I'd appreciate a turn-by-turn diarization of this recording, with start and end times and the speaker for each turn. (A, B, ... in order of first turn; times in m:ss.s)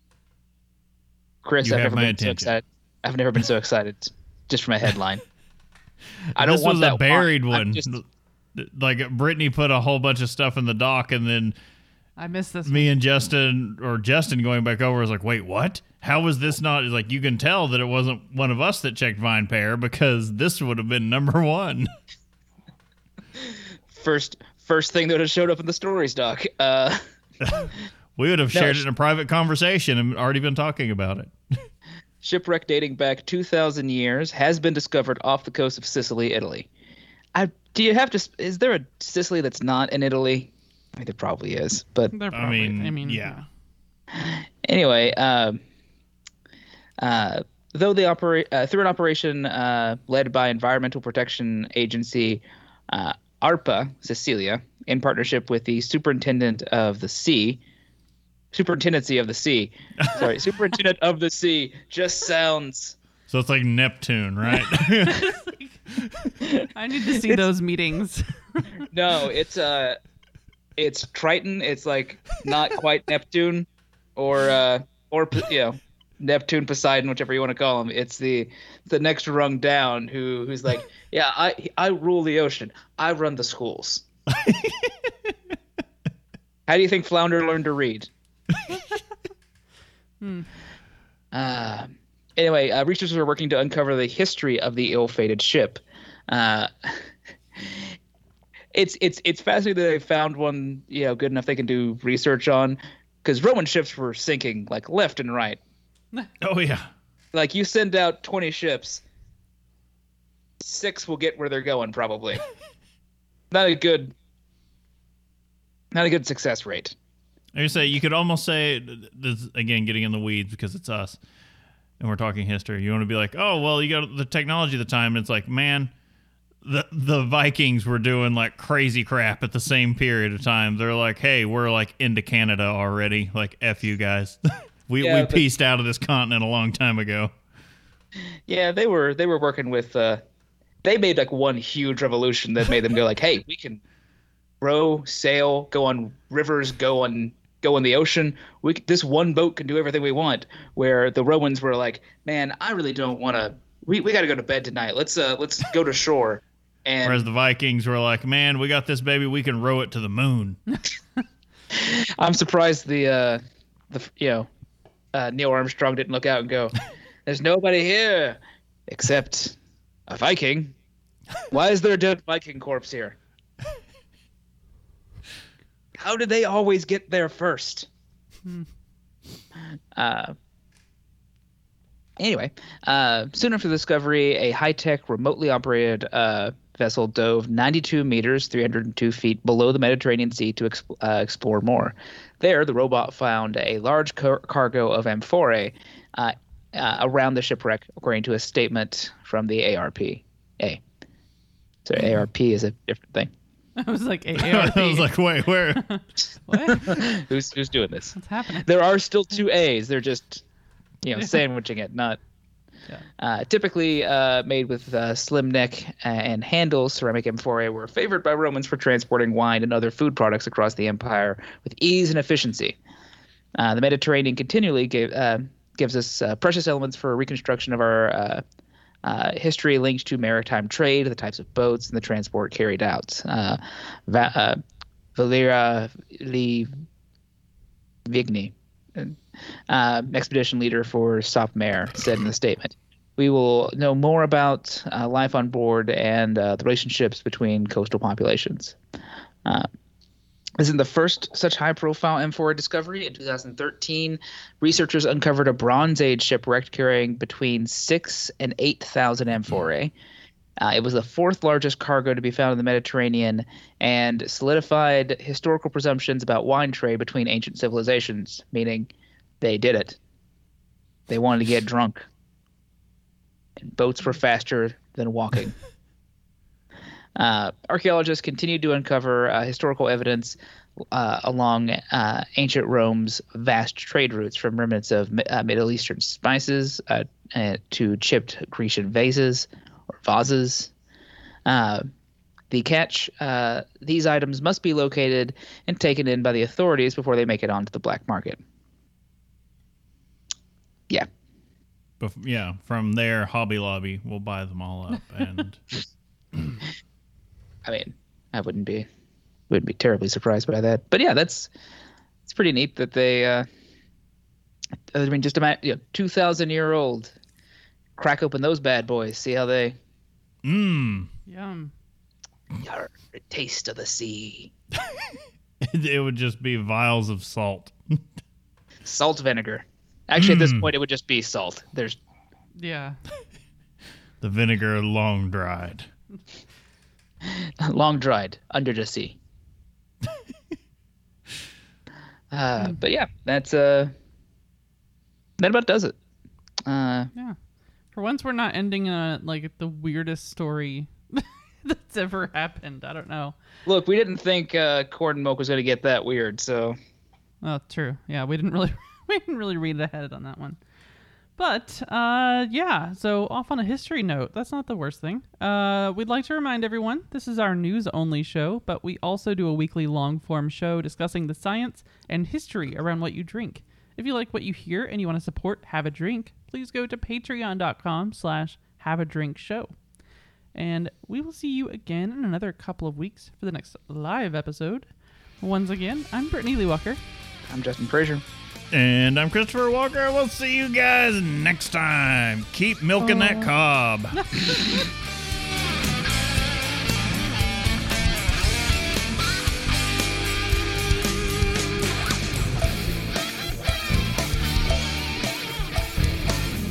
0:01.4-0:05.2 A
0:01.6-0:02.5 B
0:06.3-0:08.0 B
0:06.4-0:07.9 A
0:08.5-0:11.5 B
0:12.2-0:12.9 C
0:12.6-0:21.9 B
0:23.4-0:27.0 A
0:27.4-0:31.6 B
0:28.5-0:28.8 A
0:32.2-0:36.7 A
0:37.3-0:42.1 A
0:42.1-0:43.4 C
0:42.3-0:43.4 B
0:44.1-0:45.6 A
0:47.0-0:57.6 A
0:58.5-1:03.0 A
1:00.0-1:00.3 B
1:03.3-1:05.4 B
1:05.0-1:05.7 C
1:05.9-1:06.3 B
1:06.7-1:08.9 C
1:08.9-1:10.0 A
1:10.8-1:24.0 A
1:24.3-1:25.1 B
1:26.7-1:28.1 A
1:30.2-1:30.5 C
1:31.3-1:37.9 A
1:38.7-1:45.6 A
1:46.4-1:46.9 B
1:47.3-1:49.0 A
1:50.6-1:52.4 A
1:53.5-1:54.1 A
1:55.9-1:56.9 A
1:57.5-2:01.2 B
2:02.0-2:05.9 B
2:06.6-2:17.3 B
2:15.0-2:15.4 A
2:18.5-2:20.2 A
2:20.8-2:23.8 A
2:24.6-2:37.3 A
2:37.0-2:40.6 B
2:41.7-2:44.5 A
2:45.1-2:46.7 A
2:47.2-2:49.6 A
2:50.1-2:50.7 A
2:51.5-2:53.2 A
2:56.0-2:57.9 A
2:59.9-3:00.3 A
3:02.2-3:20.8 A
3:21.8-3:23.3 A
3:23.8-3:25.1 C
3:24.4-3:25.8 B
3:25.7-3:27.0 C
3:26.7-3:30.4 A
3:28.1-3:28.7 C
3:31.0-3:32.2 A
3:31.1-3:31.4 C
3:33.2-3:42.8 A
3:43.6-3:48.4 A
3:49.0-3:54.6 A
3:55.2-3:56.7 A
3:58.1-4:08.8 A
4:10.6-4:19.9 A
4:20.6-4:30.0 A
4:31.1-4:32.1 A
4:33.6-4:35.6 A
4:37.2-4:40.4 A
4:40.9-4:50.7 A
4:51.4-4:51.9 A
4:52.5-4:58.4 A
5:02.0-5:05.6 B
5:07.6-5:08.9 A
5:09.5-5:11.5 A
5:12.2-5:13.5 A
5:14.9-5:17.1 A
5:18.0-5:19.8 A
5:20.4-5:21.1 B
5:21.2-5:21.7 C
5:22.6-5:24.5 A
5:24.8-5:28.0 B
5:28.8-5:32.0 A
5:30.2-5:30.7 B
5:32.6-5:33.0 C
5:34.2-5:35.9 B
5:37.2-5:39.2 A
5:42.3-5:43.9 A
5:45.4-5:46.0 A
5:46.6-5:47.1 A
5:47.9-5:53.3 C
5:53.6-5:56.8 A
5:57.4-6:00.6 C
6:01.4-6:19.7 C
6:20.5-6:24.9 C
6:25.4-6:27.0 C
6:27.5-6:28.2 A
6:28.7-6:34.5 B
6:34.1-6:34.7 C